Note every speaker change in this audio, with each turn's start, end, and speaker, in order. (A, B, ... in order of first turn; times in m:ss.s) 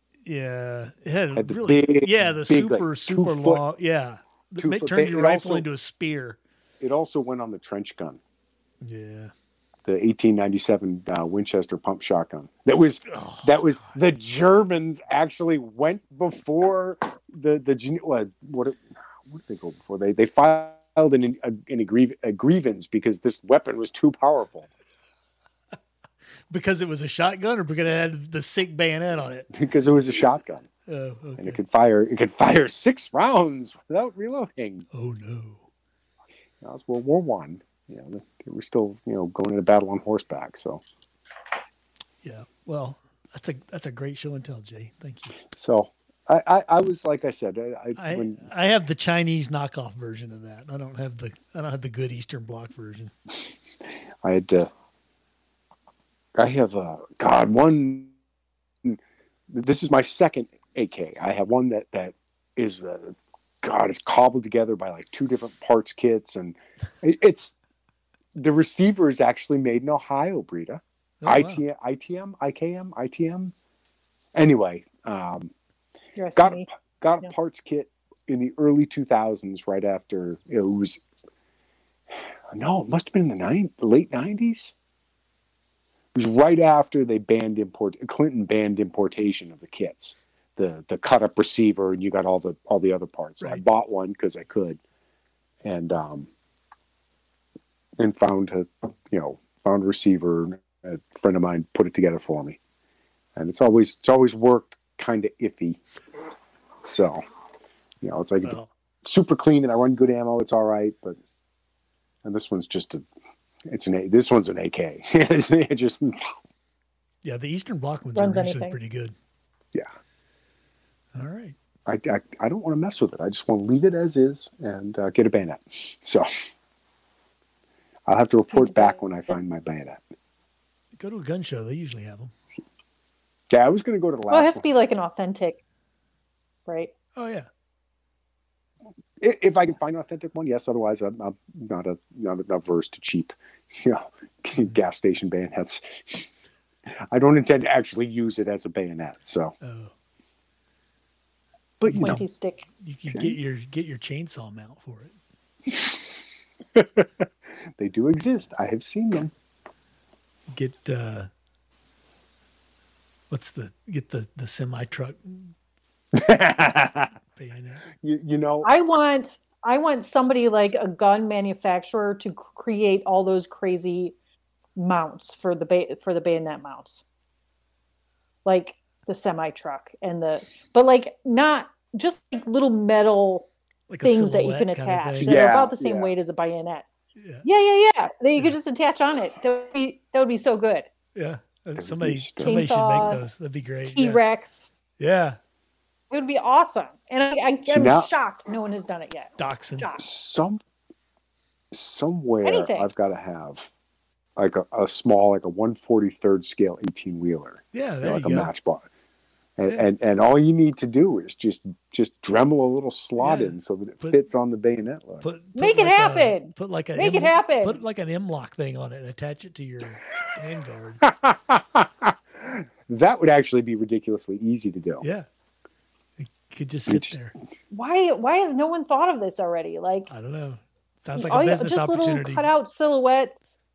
0:00.2-0:06.4 A
0:01.4-0:03.6 B
0:04.6-0:05.7 B
0:06.8-0:08.2 B
0:08.8-0:09.3 A
0:09.9-0:24.7 B
0:13.1-0:14.0 A
0:26.5-0:29.5 A
0:29.5-0:30.7 B
0:30.9-0:31.6 A
0:31.4-0:34.9 B
0:34.9-0:35.6 A
0:36.6-0:40.8 B
0:42.2-0:45.4 A
0:45.4-0:48.5 B
0:48.0-0:53.1 A
0:54.2-0:54.7 B
0:56.4-0:58.1 B
0:59.5-1:07.5 B
1:08.4-1:13.5 B
1:11.2-1:11.6 A
1:14.4-1:15.5 B
1:16.2-1:16.7 C
1:16.4-1:21.0 B
1:22.5-1:24.7 B
1:26.2-1:34.8 B
1:35.6-1:36.3 B
1:38.0-1:42.6 B
1:43.4-1:45.8 B
1:46.8-1:47.2 B
1:48.0-1:51.2 B
1:48.4-1:48.7 A
1:52.2-1:53.0 B
1:53.7-1:56.4 B
1:57.2-1:59.1 A
1:58.2-1:58.8 C
2:01.1-2:01.6 A
2:01.9-2:06.3 B
2:08.1-2:10.0 B
2:08.5-2:09.0 C
2:11.0-2:12.3 A
2:13.5-2:14.7 B
2:14.3-2:15.6 C
2:16.7-2:16.9 C
2:17.2-2:17.5 A
2:19.2-2:26.3 B
2:27.1-2:29.6 B
2:29.6-2:29.9 A
2:31.8-2:32.2 B
2:31.8-2:32.2 A
2:32.0-2:32.7 C
2:32.8-2:35.2 A
2:33.1-2:33.4 B
2:36.8-2:37.2 B
2:37.8-2:39.3 B
2:40.5-2:41.3 A
2:43.3-2:45.5 A
2:46.1-2:47.1 B
2:47.3-2:47.8 A
2:48.0-2:48.7 B
2:48.6-2:54.2 C
2:54.8-2:57.0 C
2:58.4-3:03.5 C
3:03.9-3:05.5 A
3:04.0-3:06.9 C
3:05.2-3:06.2 B
3:07.2-3:07.4 A
3:07.4-3:10.9 C
3:11.2-3:14.2 A
3:11.7-3:12.6 B
3:12.4-3:13.2 C
3:13.9-3:14.7 C
3:15.0-3:15.4 A
3:16.1-3:20.0 C
3:17.7-3:18.1 B
3:19.4-3:19.9 A
3:20.0-3:20.6 B
3:21.7-3:23.7 B
3:22.4-3:22.9 C
3:24.4-3:28.9 B
3:27.7-3:28.5 A
3:29.6-3:35.3 B
3:33.2-3:34.2 A
3:35.2-3:41.0 A
3:35.6-3:37.8 C
3:41.0-3:45.1 B
3:45.0-3:45.3 A
3:46.2-3:47.3 A
3:46.9-3:47.2 B
3:47.7-3:50.1 C
3:50.1-3:52.5 A
3:51.2-3:53.6 C